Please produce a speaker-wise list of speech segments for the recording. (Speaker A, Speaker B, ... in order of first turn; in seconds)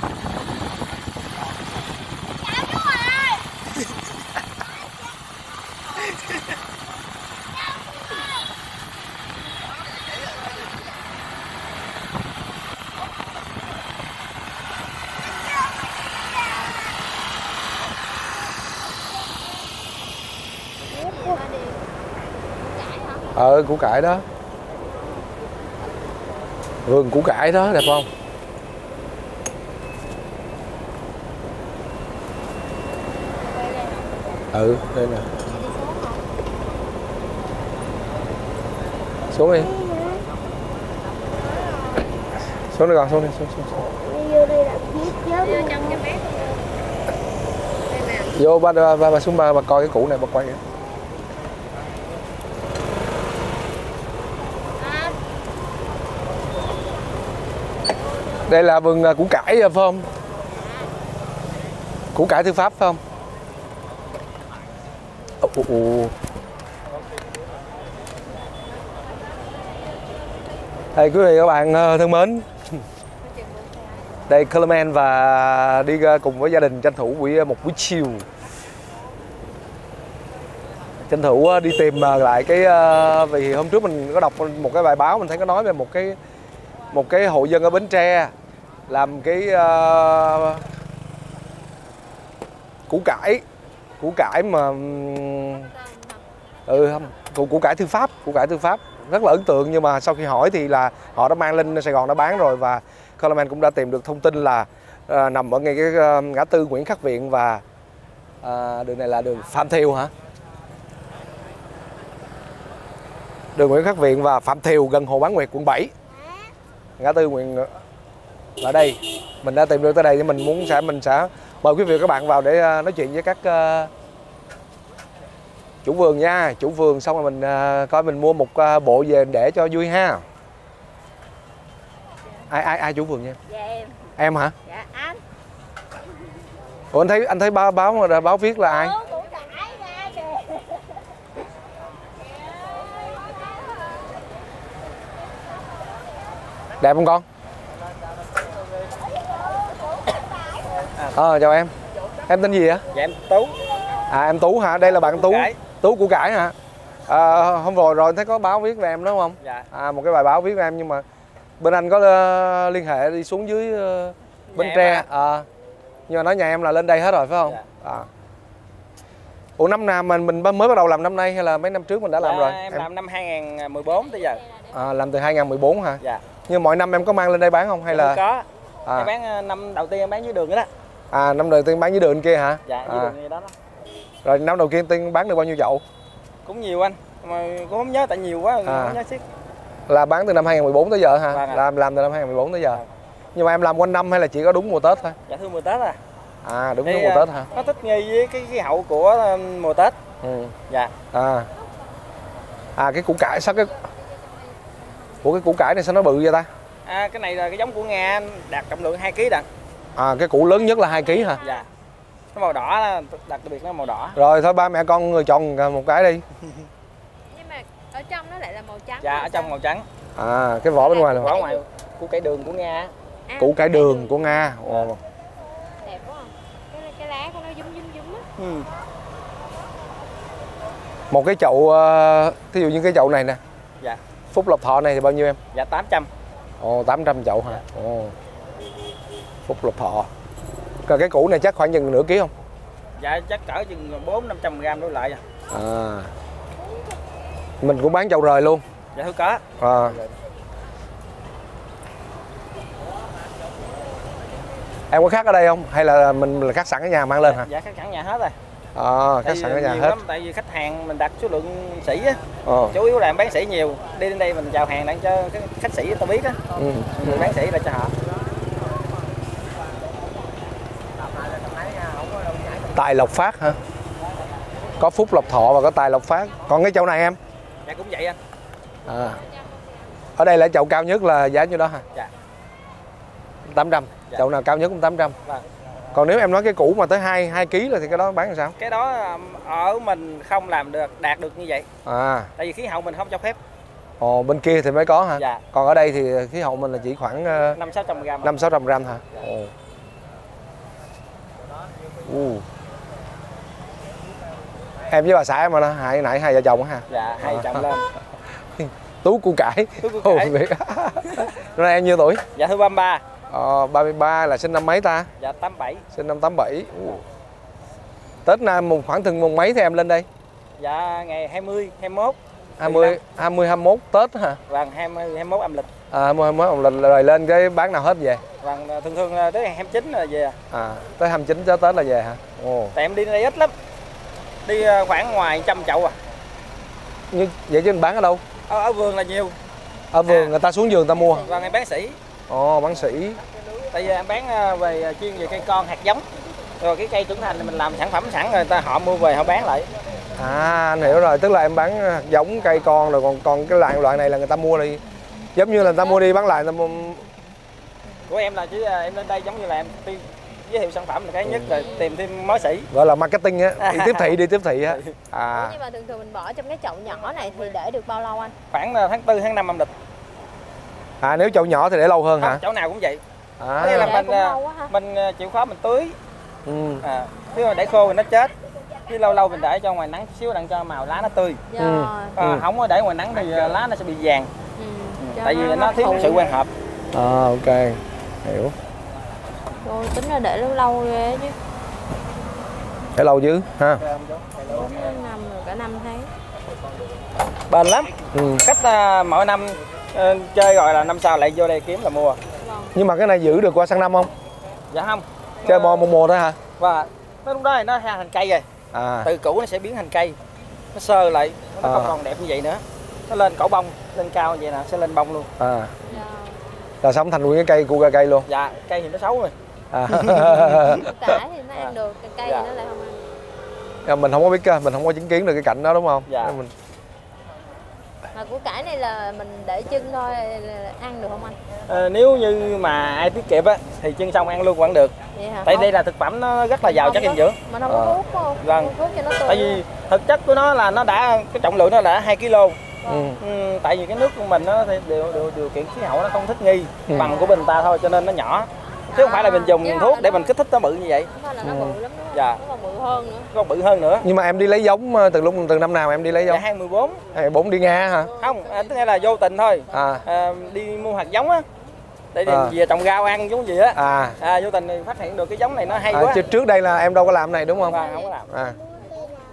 Speaker A: 20.9-21.9, 22.4-23.4, 33.4-34.1, 35.5-36.2, 44.3-46.6, 47.9-48.3, 54.8-55.2, 73.2-74.2, 95.7-96.2, 133.5-134.1, 134.7-135.2, 138.7-140.6, 210.7-211.7, 217.3-219.5, 220.8-221.6, 223.3-224.5, 225.8-228.3, 355.6-356.0, 361.4-362.0, 365.3-368.3, 373.6-374.7, 381.5-382.2, 384.6-386.3, 389.6-391.4, 394.4-396.1, 402.4-402.7, 415.9-416.4, 420.6-423.2, 428.1-431.4, 435.1-435.7, 436.6-439.6, 442.8-443.1, 448.9-450.3, 451.1-453.3, 467.6-468.1
Speaker B: 23.4-24.2, 26.9-28.1, 34.5-35.3, 39.3-39.8, 42.7-44.0, 48.3-50.6, 58.5-60.1, 62.1-63.0, 65.4-66.1, 70.9-72.8, 74.3-78.3, 81.0-86.2, 86.9-88.3, 88.9-90.7, 92.9-93.4, 94.0-95.7, 96.7-107.6, 108.4-110.1, 113.5-115.9, 117.0-117.8, 118.6-123.9, 125.8-130.2, 132.5-133.4, 134.2-134.6, 136.9-139.0, 146.8-147.2, 151.1-151.7, 152.3-152.8, 154.1-156.6, 157.1-161.0, 161.6-165.5, 166.1-168.1, 169.6-172.9, 174.7-178.2, 178.9-179.1, 181.1-183.2, 184.2-185.8, 188.7-189.0, 189.9-192.8, 193.3-195.2, 196.4-197.5, 200.2-200.6, 201.1-201.5, 202.8-203.7, 205.2-206.5, 210.0-211.4, 214.2-216.2, 220.2-221.3, 223.4-225.0, 231.1-233.4, 234.3-235.4, 236.6-238.2, 239.5-240.1, 240.8-242.3, 245.5-246.1, 247.6-248.6, 249.6-250.0, 254.9-257.5, 258.8-260.0, 262.4-262.8, 266.5-267.3, 272.7-273.6, 274.8-277.2, 278.9-279.2, 280.2-281.8, 283.5-285.1, 285.9-288.6, 291.8-292.3, 294.0-297.6, 298.2-299.5, 302.0-302.4, 304.9-307.6, 308.5-312.2, 313.3-315.1, 315.9-317.0, 318.2-320.1, 322.6-324.4, 325.9-328.2, 330.5-332.7, 337.1-338.2, 339.9-341.2, 342.3-343.2, 350.2-354.8, 355.3-357.1, 362.7-365.6, 371.0-372.4, 373.4-374.0, 376.4-376.8, 381.6-382.4, 386.9-388.5, 392.9-393.8, 398.1-398.4, 402.7-404.1, 405.4-406.4, 408.7-409.1, 411.6-411.9, 415.4-415.8, 416.8-418.2, 419.7-421.2, 423.8-426.5, 437.6-438.0, 442.8-443.2, 446.9-447.1, 451.4-451.8, 454.0-456.4, 457.1-458.1, 459.7-460.0, 462.2-462.5, 463.8-464.2, 465.9-468.6
Speaker C: 152.9-153.6, 154.9-155.6, 159.4-159.7, 164.5-165.1, 172.2-174.4, 177.9-180.7, 182.7-183.5, 186.5-189.2, 191.3-191.6, 195.3-196.0, 196.8-200.0, 206.8-209.5, 211.4-211.7, 212.3-214.2, 219.0-219.8, 221.1-222.9, 228.4-228.7, 235.5-236.1, 243.0-245.2, 248.9-250.2, 257.2-258.3, 259.2-266.4, 266.9-267.9, 277.6-278.2, 288.6-291.7, 292.4-293.4, 295.1-295.4, 297.5-298.4, 306.9-307.8, 309.8-310.4, 312.3-313.0, 315.2-315.9, 320.6-323.0, 324.5-325.7, 328.4-330.4, 332.7-333.5, 334.4-336.0, 338.5-339.4, 340.0-340.3, 341.2-342.0, 343.7-346.0, 346.6-349.7, 358.1-362.7, 363.6-364.1, 364.7-364.9, 368.5-369.7, 372.2-373.0, 373.6-376.0, 376.8-378.3, 378.9-381.4, 382.2-384.3, 385.0-386.5, 397.5-402.2, 404.7-405.9, 406.6-408.4, 409.0-410.2, 410.7-415.3, 418.2-419.3, 419.9-420.8, 421.6-422.5, 426.1-426.4, 431.7-434.9, 435.4-437.4, 438.4-438.7, 439.2-442.6, 443.2-451.1, 452.1-452.4, 453.3-454.1, 456.2-457.0, 458.2-461.4, 462.1-466.2, 467.7-468.3